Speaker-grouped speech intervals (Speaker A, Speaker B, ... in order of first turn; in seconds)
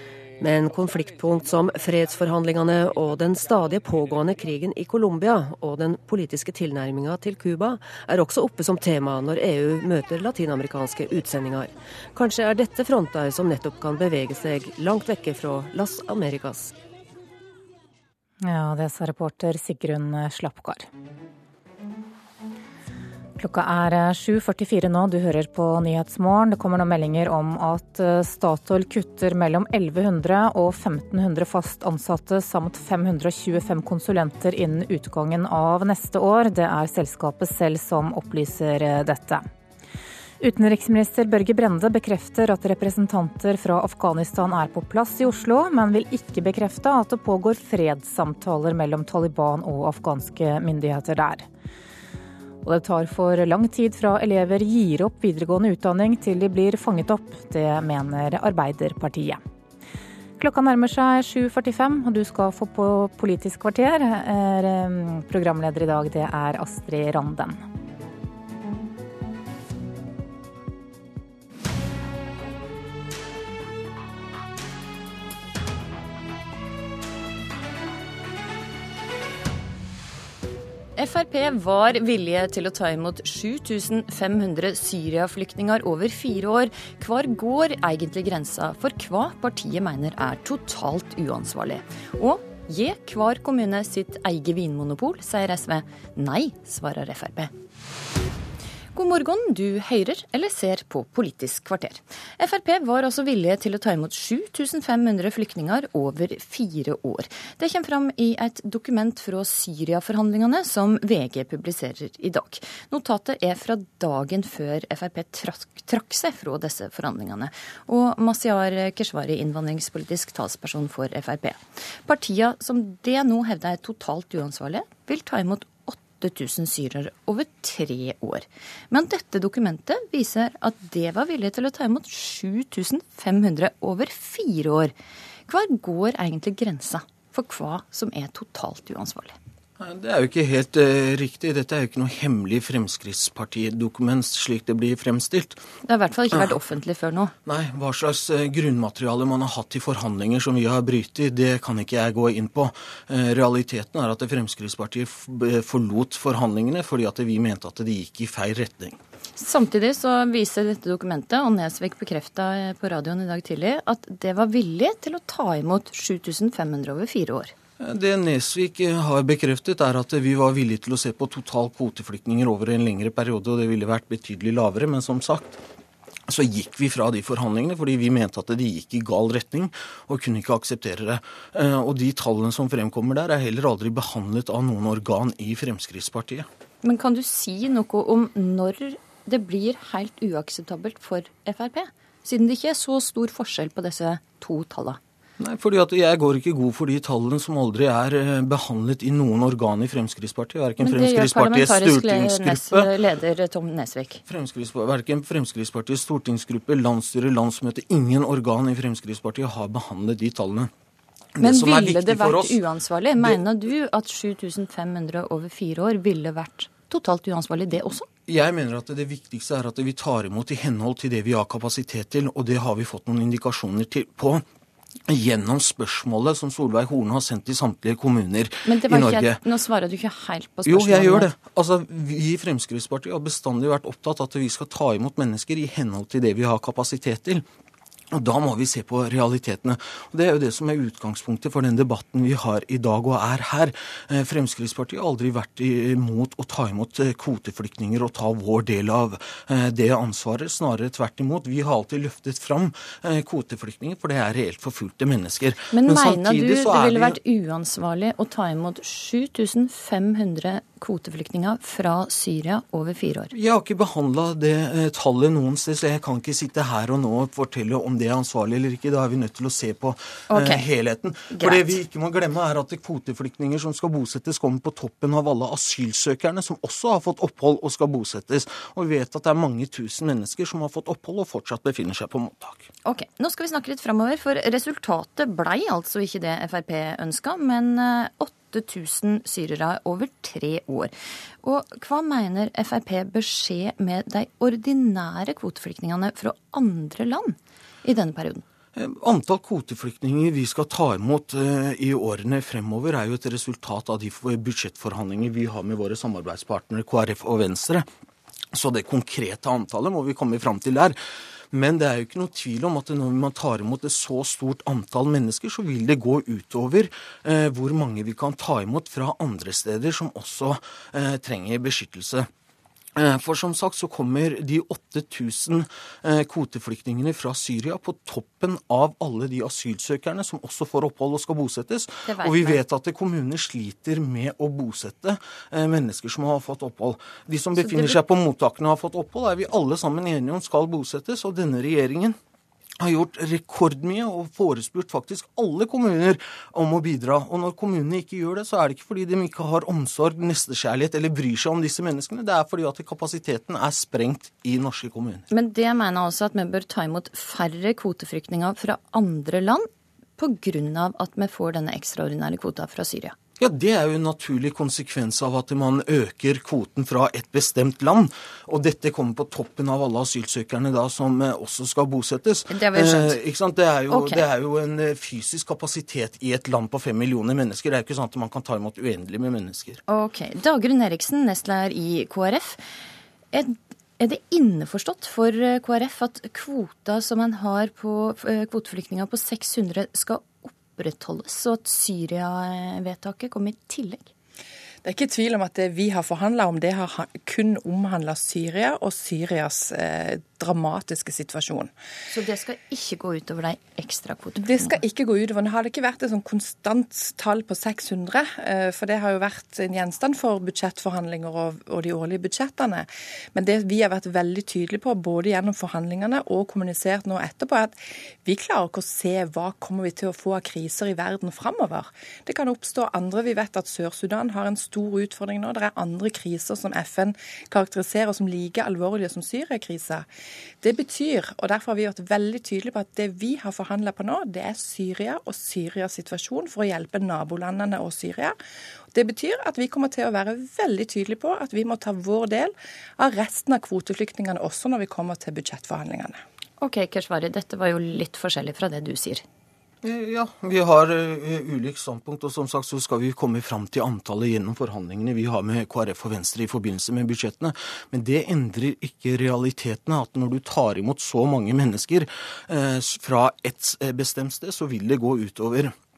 Speaker A: 0.4-16.7
Speaker B: 18.4-20.8, 23.4-39.4, 40.4-51.4, 52.6-59.4, 60.4-67.5
Speaker C: 81.0-97.5, 99.0-134.9, 135.5-139.3, 145.8-147.3, 159.4-167.5, 186.8-195.0, 200.8-204.2, 211.4-218.1, 228.7-231.3, 255.7-263.3, 270.3-270.7, 271.3-271.8, 282.9-298.4, 332.1-332.6, 337.6-338.0, 355.3-363.2, 372.5-373.2, 373.9-374.2, 379.9-382.6, 383.3-394.1, 402.1-404.8, 446.6-449.2
Speaker D: 139.8-145.6, 147.5-159.0, 167.8-175.6, 176.3-186.5, 195.4-202.9, 204.3-210.7, 211.4-212.6, 218.3-224.4, 225.1-229.4, 230.7-237.4, 238.1-257.1, 263.4-282.7, 298.8-307.9, 308.5-311.0, 311.5-322.3, 323.0-342.2, 342.8-355.2, 363.4-379.8, 449.8-465.7
Speaker E: 394.8-401.7, 404.4-430.1, 430.6-438.4, 438.9-446.2